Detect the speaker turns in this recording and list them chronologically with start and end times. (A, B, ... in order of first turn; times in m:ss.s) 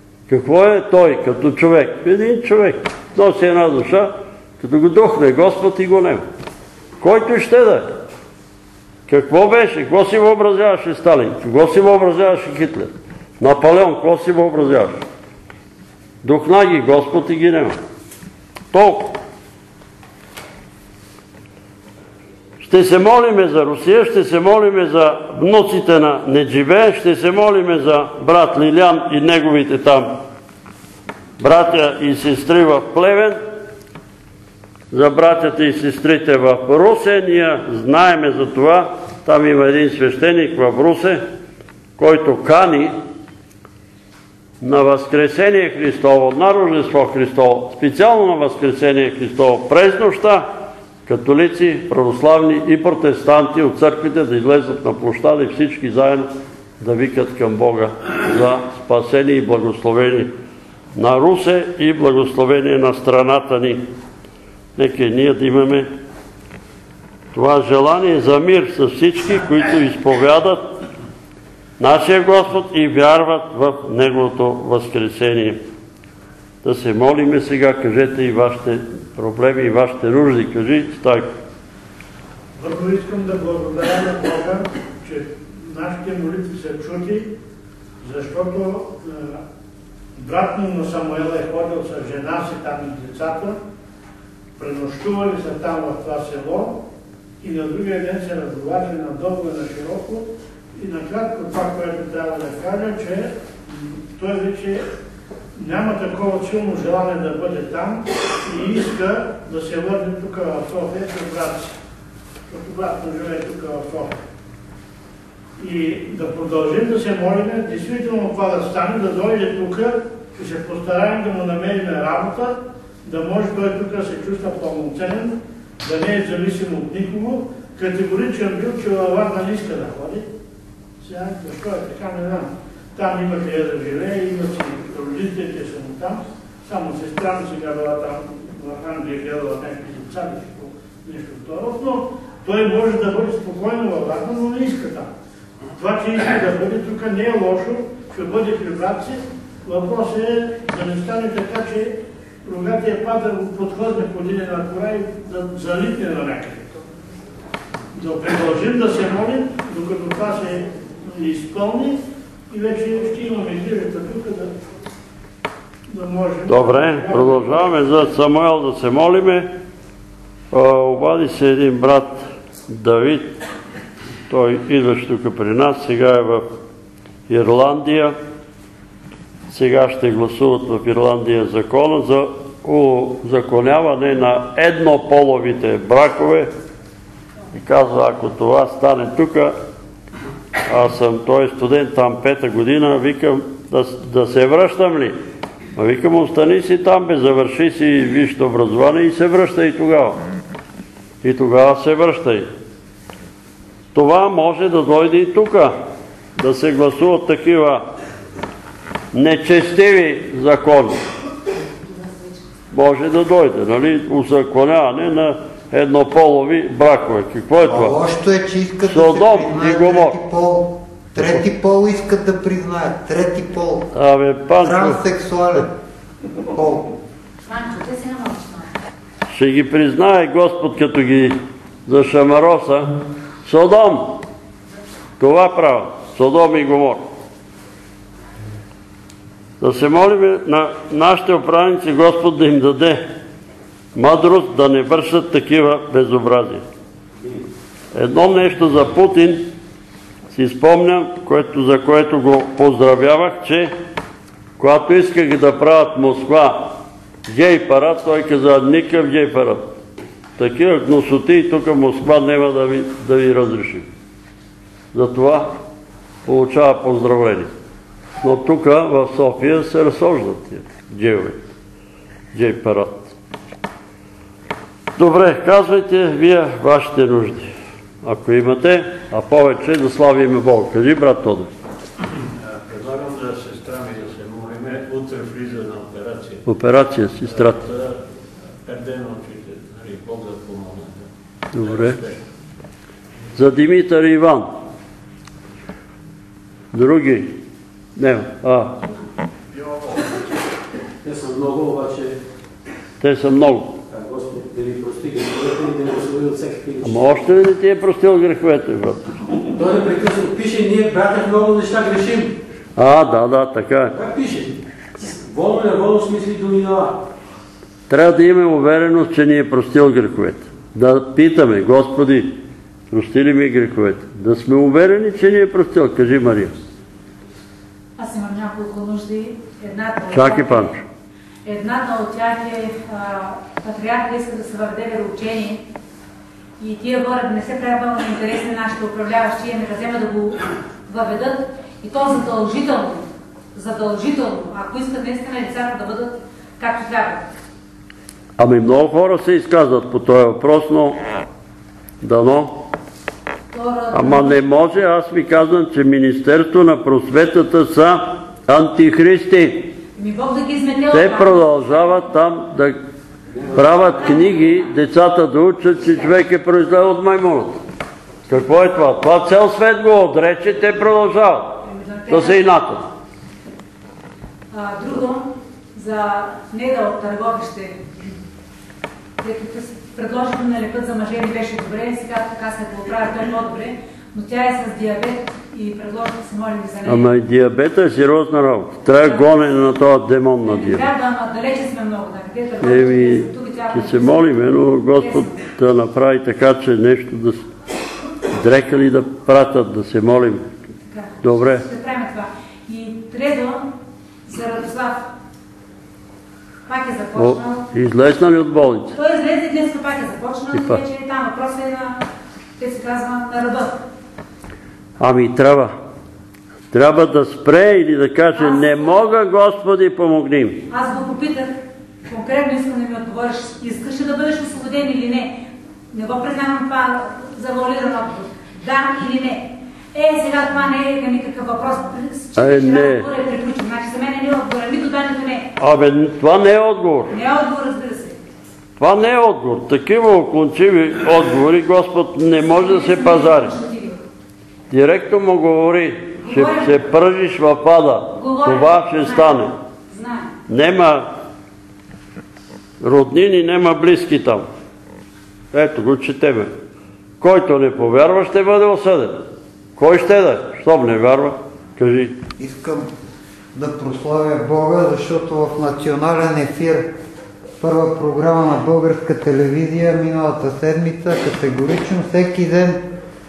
0:00.3-0:06.2 A
0:07.0-0:08.0 A
0:09.1-0:15.0 A
0:16.2-0:17.8 A
0:18.7-0:19.2 A
0:22.6-0:30.2 A
0:31.4-0:33.4 A
0:34.9-0:41.2 A
0:42.0-0:42.9 A
0:44.6-0:50.5 A
0:51.1-0:56.3 A
0:56.8-1:00.3 A
1:01.0-1:03.9 A
1:04.8-1:05.9 A
1:07.3-1:10.7 A
1:11.8-1:15.6 A
1:16.6-1:21.3 A
1:22.6-1:27.3 B
1:28.0-1:29.4 B
1:30.2-1:33.6 B
1:34.6-1:36.8 B
1:37.4-1:44.9 B
1:45.6-1:51.8 B
1:52.5-1:54.2 B
1:55.6-2:10.2 B
2:11.0-2:25.1 B
2:25.8-2:36.8 B
2:38.0-2:44.5 B
2:45.9-2:47.8 B
2:46.5-2:49.5 A
2:50.5-2:53.4 A
2:54.3-2:56.5 A
2:57.3-2:58.2 A
2:59.5-3:06.5 A
3:07.5-3:09.5 A
3:10.7-3:15.2 A
3:15.8-3:20.2 A
3:21.2-3:22.5 A
3:24.0-3:25.7 A
3:26.4-3:27.8 A
3:29.1-3:31.0 A
3:32.7-3:38.0 A
3:37.6-3:43.9 C
3:38.9-3:40.2 A
3:41.2-3:41.4 A
3:43.9-3:45.0 A
3:44.6-3:45.7 C
3:46.5-3:46.9 C
3:47.5-3:48.7 D
3:49.3-3:54.2 A
3:55.2-3:57.1 A
3:59.6-4:03.0 A
4:04.0-4:06.6 A
4:07.9-4:09.5 A
4:10.3-4:13.7 A
4:14.6-4:16.8 A
4:17.3-4:19.7 A
4:20.4-4:23.9 A
4:24.9-4:25.6 A
4:26.3-4:27.5 A
4:28.2-4:31.4 A
4:32.3-4:33.2 A
4:35.0-4:37.5 A
4:38.0-4:41.5 A
4:42.4-4:46.4 E
4:46.5-4:47.6 A
4:47.2-4:48.0 E
4:48.6-4:52.2 E
4:51.5-4:52.0 A
4:53.4-4:54.5 A
4:56.7-4:57.4 A
4:58.0-4:58.8 A
4:59.5-5:00.0 E
5:01.0-5:02.2 F
5:03.0-5:03.8 A
5:03.9-5:07.2 F
5:06.8-5:09.2 A
5:09.6-5:12.4 F
5:12.8-5:13.9 A
5:13.9-5:17.0 F
5:17.9-5:22.4 A
5:22.9-5:26.5 A
5:28.0-5:30.7 D
5:30.1-5:30.8 A
5:31.4-5:35.6 D
5:36.6-5:47.2 D
5:48.4-5:51.0 A
5:52.0-5:52.7 A
5:53.5-5:54.4 D
5:53.9-5:59.8 A
6:00.0-6:02.1 D
6:00.9-6:02.8 A
6:03.5-6:07.6 A
6:08.3-6:12.8 A
6:11.7-6:12.4 D
6:14.5-6:17.8 D
6:19.2-6:27.1 D
6:26.9-6:30.9 A
6:30.5-6:34.2 D
6:32.6-6:37.4 A
6:34.9-6:35.4 D
6:38.3-6:40.5 A
6:40.9-6:43.7 D
6:41.2-6:41.6 A
6:44.3-6:45.1 D
6:46.7-6:47.6 D
6:47.2-6:49.0 A
6:49.0-6:52.1 D
6:50.5-6:50.8 A
6:52.6-6:53.8 D
6:55.0-6:55.7 A
6:56.7-7:00.7 A
6:58.4-6:58.8 D
7:00.7-7:01.6 D
7:02.1-7:15.5 D
7:12.4-7:13.1 A
7:15.6-7:17.1 A
7:17.1-7:18.2 D
7:18.8-7:23.5 A
7:22.6-7:24.0 D
7:24.7-7:29.5 A
7:26.2-7:26.7 D
7:28.2-7:30.3 D
7:30.5-7:31.1 A
7:32.8-7:34.5 A
7:35.5-7:36.5 A
7:37.2-7:39.2 A
7:39.8-7:42.2 A
7:42.4-7:42.9 C
7:43.6-7:46.9 C
7:47.6-7:52.8 C